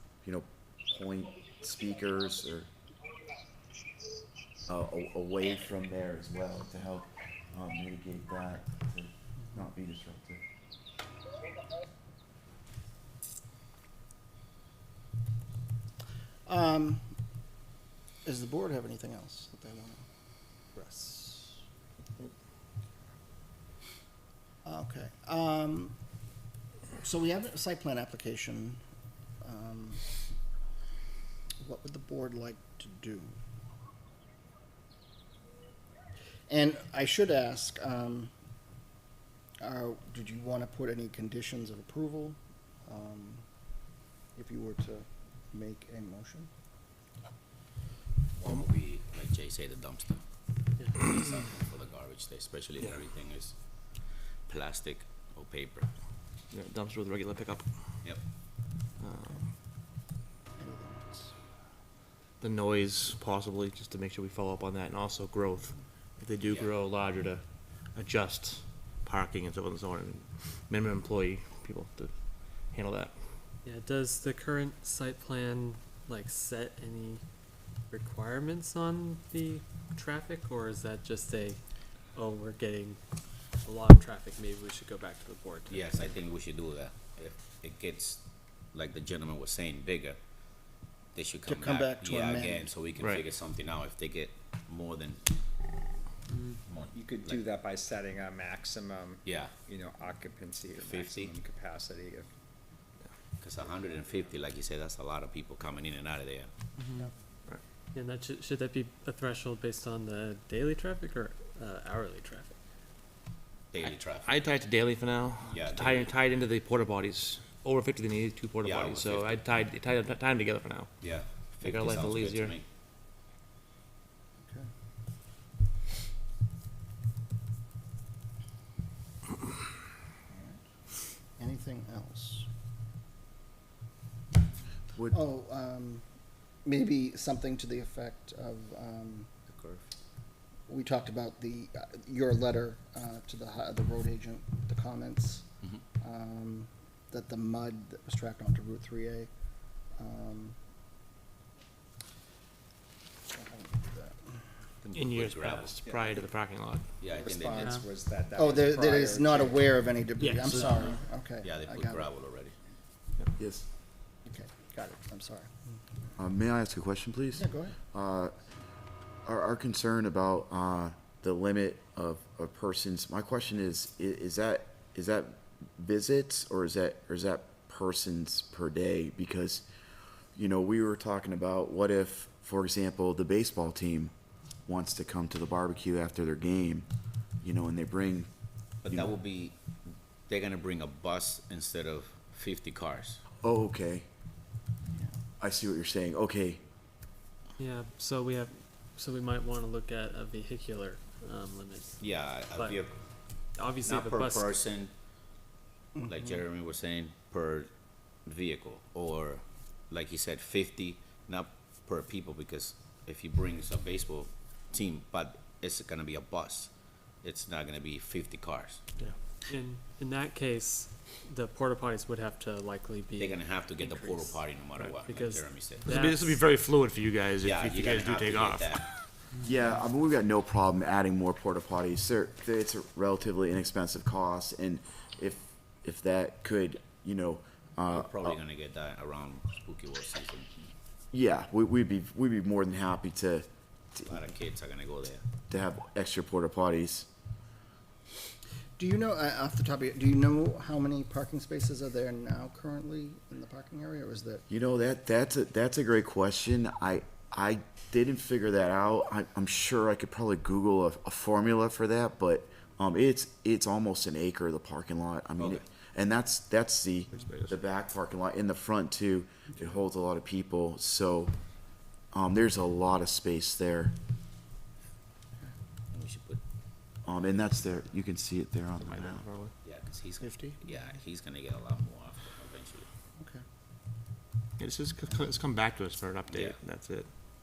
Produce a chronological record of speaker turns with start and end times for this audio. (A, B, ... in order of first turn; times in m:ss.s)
0:00.2-0:02.7 A
0:04.7-0:10.4 A
0:16.4-0:17.0 B
0:18.2-0:20.0 B
0:20.8-0:21.5 B
0:24.6-0:25.9 B
0:27.0-0:28.8 B
0:29.4-0:30.0 B
0:31.6-0:33.3 B
0:36.5-0:38.3 B
0:39.6-0:43.5 B
0:44.3-0:46.5 B
0:48.4-0:50.2 C
0:50.9-0:55.9 C
0:56.5-0:57.6 D
0:58.0-0:58.3 C
0:59.0-0:59.5 D
1:00.6-1:01.3 B
1:02.4-1:13.2 D
1:13.6-1:17.2 E
1:17.9-1:21.6 E
1:22.1-1:23.0 E
1:23.5-1:26.2 E
1:25.7-1:30.2 C
1:31.1-1:35.2 C
1:31.5-1:32.7 B
1:33.0-1:33.3 D
1:36.7-1:37.5 C
1:36.9-1:42.3 F
1:39.2-1:39.5 C
1:40.8-1:41.3 C
1:43.4-1:46.5 C
1:47.9-1:52.6 E
1:53.7-1:54.4 C
1:53.8-2:00.9 D
1:55.5-1:56.1 C
1:58.6-1:59.4 C
2:01.0-2:02.6 C
2:01.6-2:02.5 D
2:10.3-2:10.6 B
2:11.4-2:12.5 B
2:15.1-2:16.0 B
2:16.6-2:19.3 B
2:19.5-2:19.8 C
2:20.7-2:25.4 B
2:26.0-2:29.3 B
2:30.0-2:30.5 B
2:33.3-2:34.1 B
2:34.8-2:35.7 C
2:34.9-2:36.9 D
2:35.8-2:36.2 F
2:37.0-2:37.8 C
2:37.0-2:39.7 F
2:38.3-2:42.1 B
2:40.5-2:40.9 E
2:41.4-2:42.5 C
2:43.4-2:43.6 A
2:44.2-2:45.5 B
2:46.2-2:48.3 A
2:47.4-2:47.8 B
2:49.2-2:59.6 A
3:00.3-3:04.1 A
3:04.6-3:06.9 A
3:07.4-3:08.3 A
3:08.8-3:09.6 C
3:10.3-3:13.2 C
3:13.4-3:14.0 A
3:15.4-3:16.6 A
3:17.6-3:22.8 E
3:22.0-3:23.0 C
3:23.4-3:24.6 E
3:23.6-3:24.9 C
3:26.1-3:27.7 C
3:28.2-3:38.8 C
3:39.5-3:46.4 E
3:43.2-3:46.0 C
3:45.8-3:48.8 D
3:47.4-3:48.8 C
3:49.4-3:58.4 A
3:57.9-4:00.5 C
4:01.1-4:04.2 A
4:04.1-4:05.2 C
4:05.5-4:07.1 A
4:08.8-4:14.4 B
4:14.5-4:31.3 A
4:27.1-4:27.6 D
4:32.1-4:33.9 A
4:35.9-4:36.4 C
4:37.0-4:39.2 A
4:38.8-4:39.5 D
4:39.6-4:42.9 C
4:40.2-4:40.6 B
4:44.6-4:47.1 D
4:46.3-4:46.6 C